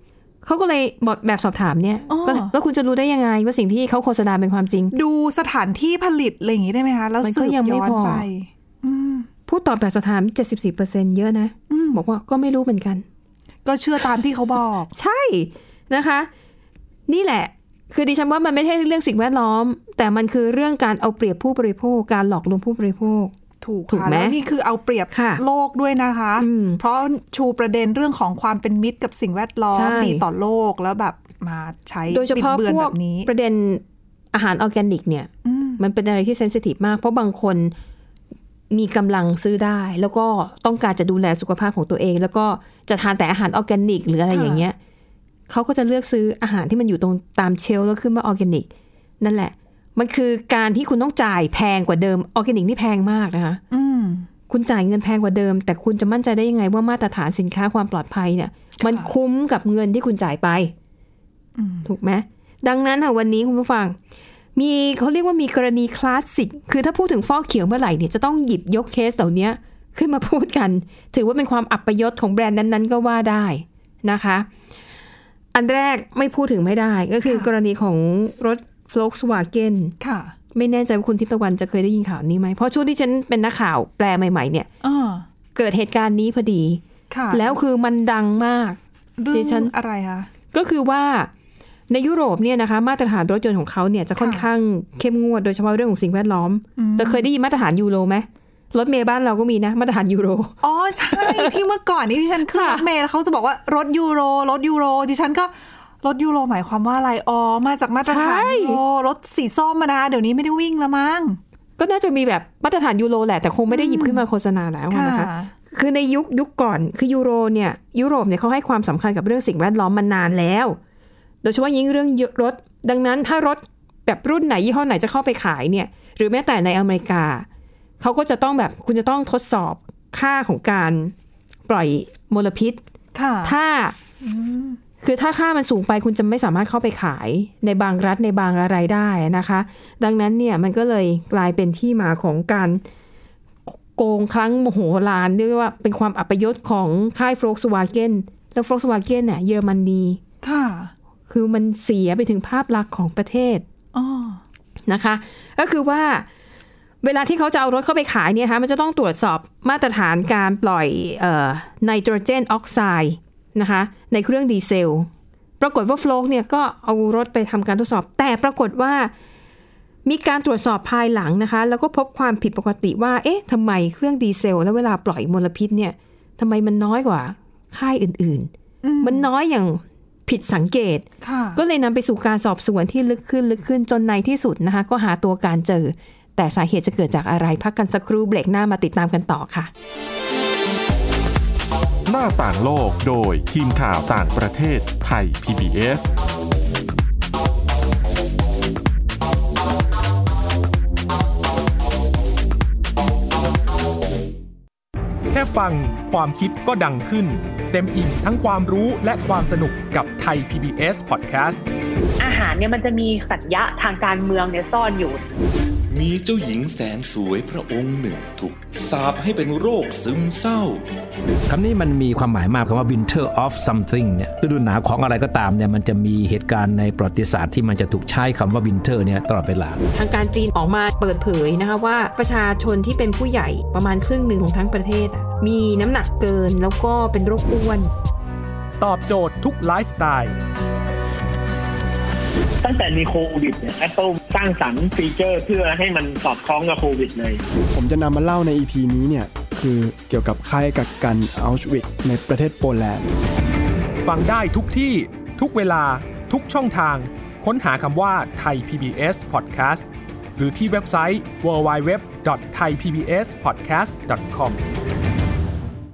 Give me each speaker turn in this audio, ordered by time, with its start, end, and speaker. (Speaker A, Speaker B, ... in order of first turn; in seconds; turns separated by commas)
Speaker A: 0.4-4.9, Speaker B: 2.1-2.5, Speaker B: 4.9-9.3, Speaker A: 7.2-8.3, Speaker A: 9.5-13.1, Speaker B: 11.7-12.0, Speaker B: 13.7-14.9, Speaker A: 14.9-16.3, Speaker A: 17.1-23.3, Speaker B: 23.6-33.3, Speaker A: 23.9-24.4, Speaker A: 25.1-25.4, Speaker A: 26.4-26.8, Speaker A: 29.7-30.2, Speaker A: 32.1-37.7, Speaker B: 35.5-35.8, Speaker A: 38.7-44.8, Speaker B: 44.3-44.6, Speaker A: 45.5-48.7, Speaker A: 49.2-53.6, Speaker B: 53.7-54.3, Speaker A: 54.5-60.7, Speaker B: 58.8-59.1, Speaker B: 61.6-61.9, Speaker A: 61.9-64.0, Speaker A: 64.5-74.5, Speaker A: 75.5-80.0, Speaker B: 77.2-77.5, Speaker B: 80.0-80.3, Speaker A: 80.5-84.7, Speaker B: 84.8-85.3, Speaker A: 85.5-86.8, Speaker B: 87.1-87.5, Speaker A: 87.3-88.8, Speaker B: 89.2-90.3, Speaker A: 89.3-89.7, Speaker A: 90.5-91.3, Speaker A: 91.9-100.5, Speaker B: 94.2-94.5, Speaker B: 96.8-97.2, Speaker B: 100.6-111.4, Speaker A: 101.1-101.5, Speaker A: 102.5-102.8, Speaker A: 108.0-108.8, Speaker A: 111.8-120.8, Speaker B: 113.7-114.2, Speaker B: 114.9-115.5, Speaker A: 121.4-127.5, Speaker A: 128.0-131.1, Speaker A: 131.7-132.8, Speaker B: 133.1-133.6, Speaker A: 133.4-134.0, Speaker B: 134.2-134.8, Speaker A: 135.0-142.8, Speaker A: 143.7-150.2, Speaker B: 150.4-150.9, Speaker A: 151.3-153.7, Speaker B: 153.9-154.4, Speaker A: 154.9-156.3, Speaker A: 157.0-169.1, Speaker A: 170.1-181.1, Speaker B: 178.8-179.3, Speaker B: 181.2-181.6, Speaker A: 181.6-189.7, Speaker C: 192.1-196.1, Speaker D: 205.3-211.7, Speaker E: 212.2-215.2, Speaker F: 215.9-220.8, Speaker G: 221.5-229.8, Speaker A: 229.9-237.9, Speaker D: 238.8-240.3, Speaker H: 242.6-247.4, Speaker I: 247.7-253.1, Speaker D: 254.0-264.6